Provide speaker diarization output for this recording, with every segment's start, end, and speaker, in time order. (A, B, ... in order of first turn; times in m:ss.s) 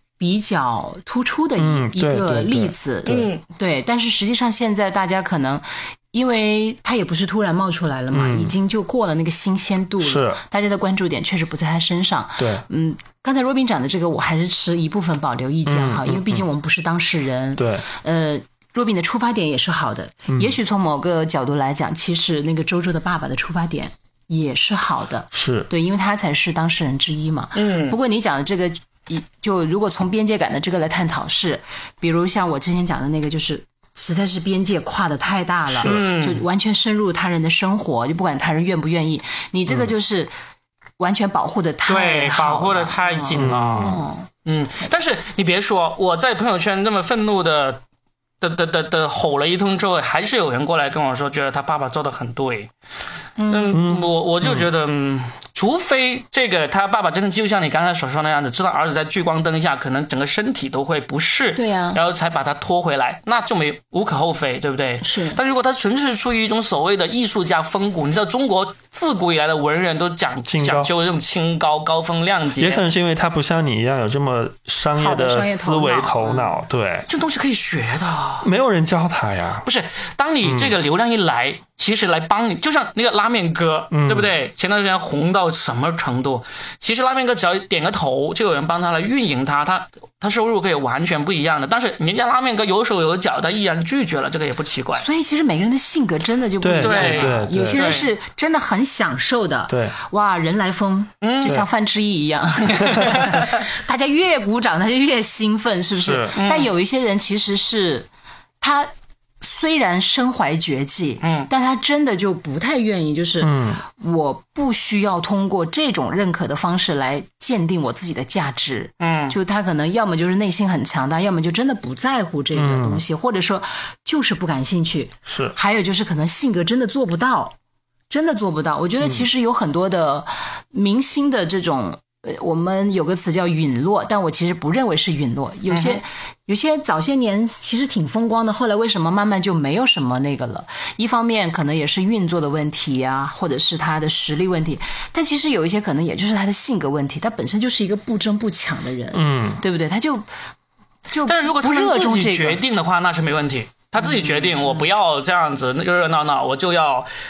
0:00.2-0:40.3 A
0:01.6-0:03.3 B
0:03.1-0:03.4 C
0:08.1-0:08.5 B
0:10.0-0:10.4 B
0:15.6-0:16.4 B
0:17.6-0:17.8 B
0:25.3-0:25.7 B
0:27.5-0:28.0 C
0:35.7-0:36.0 B
0:35.8-0:36.4 C
0:39.7-0:39.9 B
0:41.0-0:44.3 A
0:41.8-0:47.8 C
0:43.3-0:44.0 B
0:48.4-0:52.7 C
0:53.4-0:53.8 A
0:53.5-1:12.8 C
0:53.7-0:54.6 B
1:01.6-1:02.0 A
1:05.0-1:05.4 A
1:10.5-1:10.9 B
1:12.6-1:17.1 B
1:15.0-1:16.5 A
1:17.1-1:18.5 C
1:18.4-1:19.6 B
1:19.6-1:35.0 C
1:20.4-1:20.7 B
1:23.9-1:24.3 B
1:35.0-1:48.1 A
1:36.6-1:38.0 B
1:36.8-1:38.1 C
1:39.7-1:39.9 B
1:41.2-1:41.6 C
1:42.6-1:43.6 C
1:46.0-1:46.4 B
1:46.4-1:46.7 C
1:48.6-2:07.5 A
1:51.2-1:51.5 C
1:53.4-1:53.8 B
1:59.0-1:59.4 C
2:02.5-2:03.0 B
2:05.3-2:05.5 B
2:08.1-2:30.3 A
2:15.7-2:16.0 C
2:29.1-2:29.6 B
2:31.1-2:32.6 A
2:31.2-2:37.1 C
2:34.0-2:34.9 A